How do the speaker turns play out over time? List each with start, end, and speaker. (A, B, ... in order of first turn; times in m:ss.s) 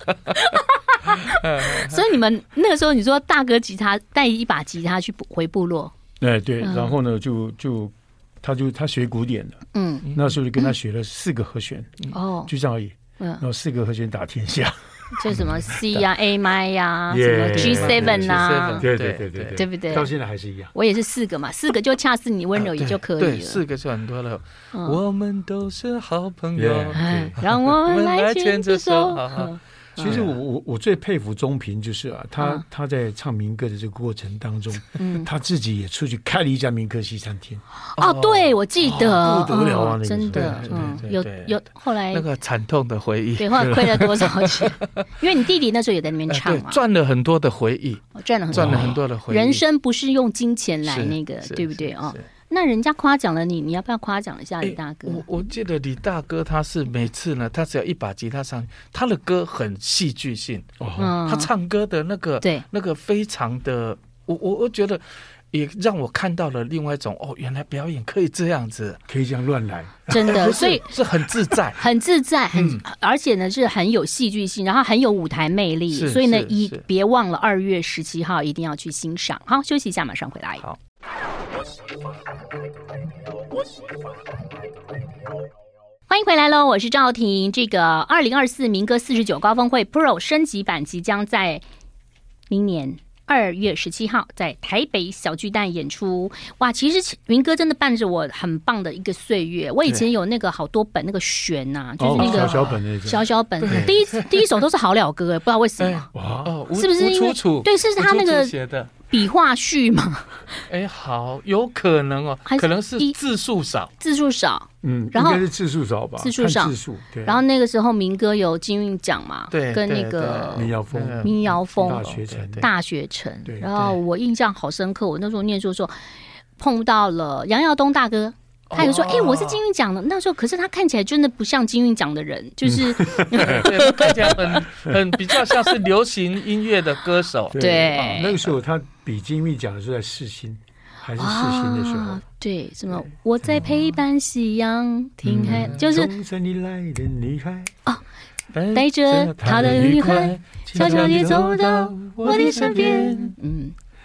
0:00.3-0:05.9 A
0:01.3-0:02.0 B
0:06.2-0:16.0 C
0:06.6-0:06.9 A
0:09.7-0:10.7 A
0:12.1-0:12.5 A
0:15.1-0:18.9 A
0:17.1-0:20.7 C
0:17.5-0:19.6 B
0:19.5-0:20.1 A
0:20.7-0:23.6 A
0:22.6-0:30.4 B
0:24.7-0:25.0 A
0:26.5-0:27.4 C
0:26.9-0:30.2 A
0:30.0-0:37.6 C
0:32.4-0:32.6 A
0:35.0-0:35.3 A
0:37.8-0:42.2 A
0:38.0-0:39.2 B
0:38.8-0:41.0 C
0:40.3-0:45.0 B
0:43.4-0:46.8 A
0:46.3-0:49.6 B
0:48.2-0:55.2 A
0:48.5-0:48.9 C
0:50.8-0:52.2 B
0:54.6-1:00.7 B
1:00.8-1:01.2 C
1:01.0-1:01.5 A
1:01.2-1:09.0 B
1:09.1-1:10.4 C
1:10.1-1:11.0 A
1:10.2-1:11.8 B
1:11.7-1:20.6 A
1:12.5-1:12.8 B
1:15.9-1:16.8 B
1:26.1-1:31.6 A
1:32.5-1:46.1 A
1:42.0-1:43.9 C
1:42.2-1:42.8 B
1:43.6-1:44.5 B
1:45.8-1:48.9 B
1:46.1-1:46.5 C
1:46.7-1:48.5 A
1:49.1-1:50.6 A
1:50.7-1:53.9 B
1:52.5-1:53.1 A
1:54.0-1:55.4 A
1:54.8-1:57.4 C
1:56.2-2:02.1 A
1:59.5-2:02.7 B
2:00.5-2:02.7 C
2:02.6-2:05.9 A
2:03.4-2:03.7 C
2:06.6-2:14.3 A
2:08.7-2:09.6 B
2:12.6-2:15.0 C
2:13.3-2:18.2 B
2:17.5-2:22.2 C
2:17.5-2:18.4 A
2:21.2-2:26.1 A
2:23.4-2:23.9 C
2:25.2-2:27.7 C
2:25.4-2:25.8 B
2:28.5-2:33.4 B
2:28.7-2:33.7 A
2:29.4-2:33.3 C